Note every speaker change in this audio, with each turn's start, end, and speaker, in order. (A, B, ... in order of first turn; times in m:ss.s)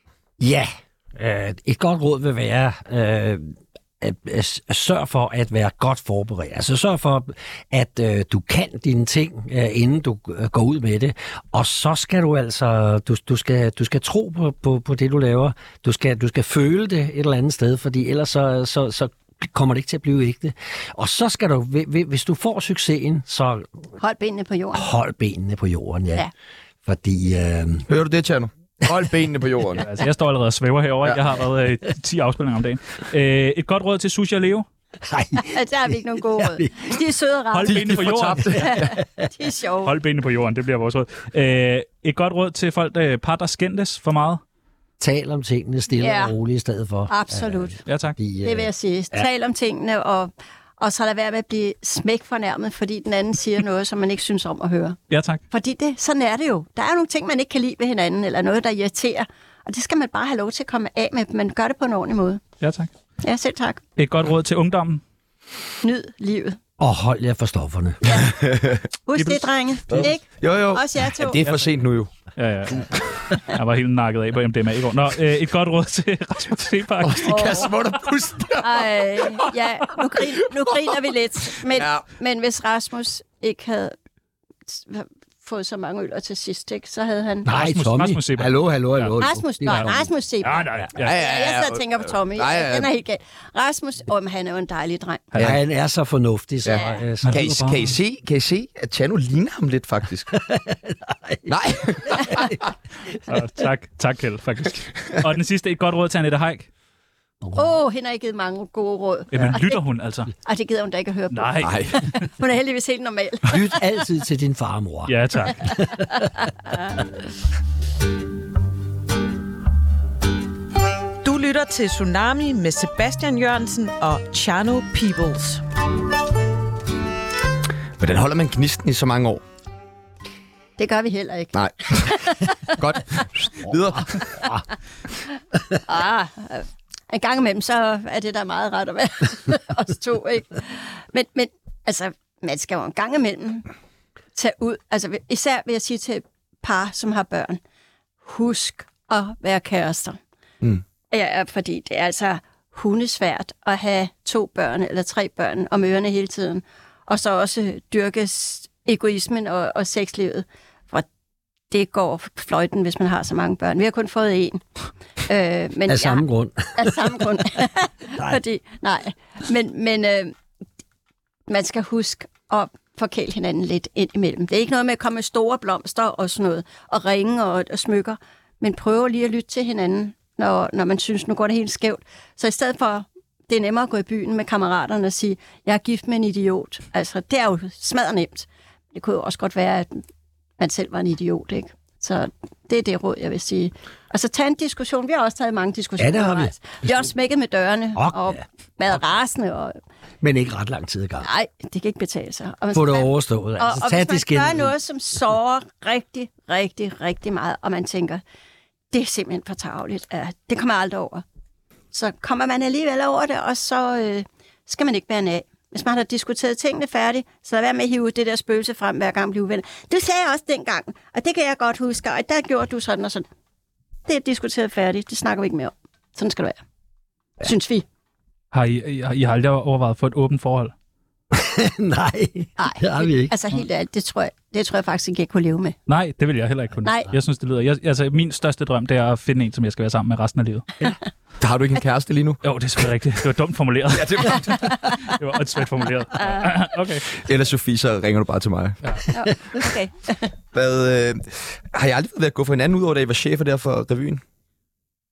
0:00.4-0:23.7 A
0:24.0-0:24.9 B
0:24.7-0:26.3 A
0:26.8-0:27.9 A
0:27.9-0:29.8 C
0:29.8-0:34.7 D
0:35.0-0:36.9 A
0:35.4-0:39.9 B
0:37.5-0:38.8 D
0:37.7-0:39.0 C
0:39.8-0:44.4 D
0:45.0-0:49.3 A
0:46.0-0:46.4 B
0:47.1-0:47.8 B
0:47.9-0:48.2 D
0:48.4-0:55.0 B
0:55.1-0:55.4 D
0:55.5-1:02.4 B
1:02.6-1:02.9 D
1:03.2-1:03.8 B
1:04.0-1:05.0 D
1:05.8-1:06.6 B
1:06.8-1:08.2 A
1:08.1-1:08.8 C
1:09.1-1:11.4 B
1:09.2-1:09.4 D
1:09.9-1:12.1 C
1:11.4-1:11.7 D
1:12.4-1:17.8 D
1:17.0-1:19.5 C
1:17.2-1:17.7 B
1:18.6-1:24.0 B
1:21.7-1:22.0 C
1:24.7-1:27.5 B
1:27.4-1:30.1 A
1:27.5-1:29.9 D
1:29.2-1:35.3 B
1:30.4-1:31.2 D
1:31.0-1:32.9 C
1:35.3-1:35.6 D
1:35.4-1:37.6 A
1:36.6-1:40.4 C
1:36.7-1:37.0 B
1:37.2-1:37.9 D
1:40.3-1:42.6 A
1:41.5-1:42.6 C
1:43.3-1:46.7 D
1:47.6-1:49.8 B
1:49.3-1:50.3 D
1:50.4-1:53.8 B
1:51.3-1:52.0 D
1:51.6-1:52.0 C
1:53.4-1:56.3 A
1:55.1-1:55.8 D
2:01.2-2:05.6 E
2:08.0-2:09.4 C
2:10.8-2:12.8 B
2:11.6-2:14.5 C
2:13.7-2:14.6 A
2:15.9-2:23.7 B
2:24.4-2:27.6 B
2:28.2-2:30.2 B
2:31.1-2:41.1 B
2:41.7-2:44.6 B
2:45.3-2:50.3 B
2:45.9-2:47.2 A
2:51.5-3:10.0 B
3:10.6-3:19.8 B
3:16.0-3:17.1 A
3:18.0-3:18.4 A
3:20.2-3:21.3 A
3:21.2-3:28.2 B
3:22.7-3:24.7 A
3:28.9-3:31.2 B
3:31.9-3:43.2 B
3:44.1-3:46.6 B
3:47.4-3:47.9 B
3:48.5-3:50.7 D
3:51.3-3:53.3 A
3:52.6-3:55.8 B
3:55.9-4:00.7 D
3:56.8-3:57.1 B
4:01.4-4:02.4 C
4:02.4-4:07.2 D
4:03.9-4:05.0 C
4:07.1-4:08.8 C
4:09.1-4:10.3 B
4:10.5-4:14.2 C